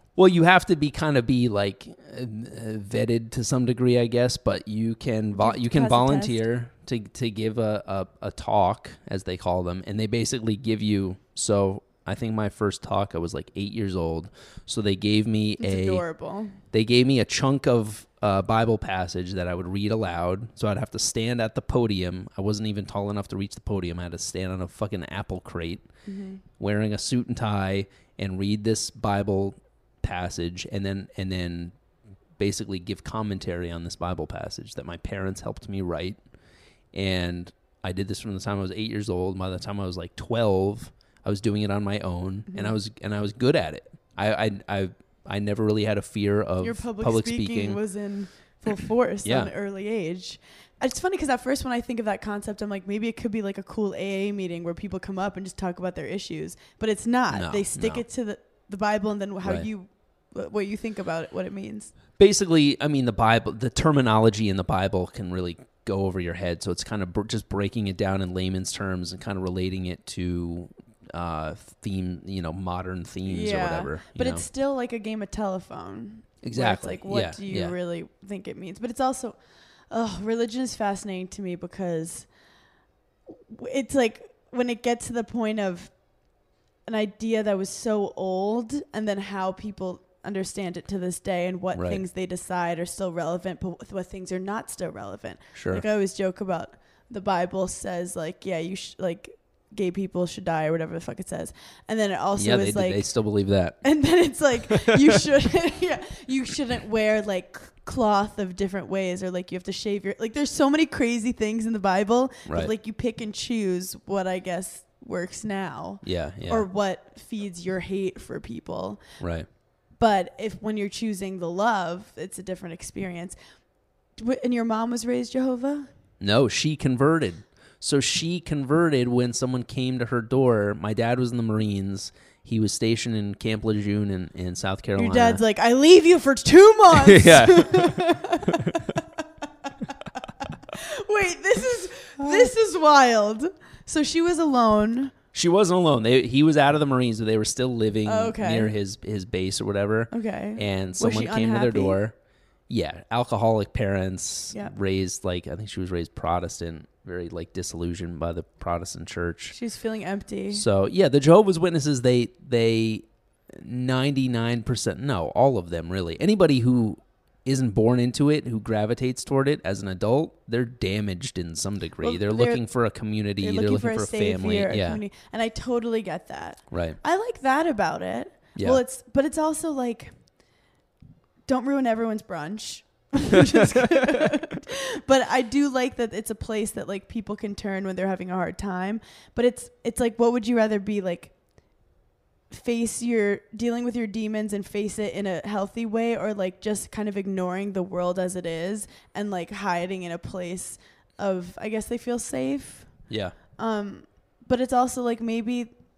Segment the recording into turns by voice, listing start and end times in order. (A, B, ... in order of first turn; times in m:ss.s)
0:00.2-0:16.0 A
0:05.4-0:06.4 B
0:15.6-0:16.6 B
0:16.7-0:25.9 A
0:26.0-0:26.4 B
0:26.6-0:31.7 A
0:32.4-0:36.2 A
0:36.9-0:47.8 A
0:42.5-0:42.7 B
0:46.6-1:01.9 B
0:49.2-0:49.5 A
0:57.3-0:58.0 A
1:02.2-1:14.4 A
1:13.2-1:19.4 B
1:16.4-1:17.7 A
1:19.9-1:22.3 B
1:23.3-1:25.9 B
1:26.8-1:43.1 B
1:31.7-1:32.0 A
1:35.5-1:35.8 A
1:42.4-1:43.8 A
1:43.8-1:59.0 B
1:44.8-1:45.1 A
1:52.4-1:52.7 A
1:56.0-1:56.7 A
1:59.2-1:59.5 A
2:00.0-2:03.4 B
2:04.2-2:05.9 B
2:06.2-2:15.4 A
2:15.0-2:25.1 B
2:16.9-2:18.9 A
2:25.3-2:32.1 A
2:28.0-2:28.7 B
2:30.1-2:32.0 B
2:32.7-2:39.6 A
2:39.5-2:40.6 B
2:40.5-2:55.0 A
2:52.0-2:52.6 B
2:53.4-3:00.1 B
2:56.7-2:57.0 A
2:58.6-2:58.8 A
3:01.5-3:11.3 B
3:03.5-3:04.4 A
3:12.5-3:22.9 B
3:23.1-3:23.3 A
3:23.6-3:25.7 B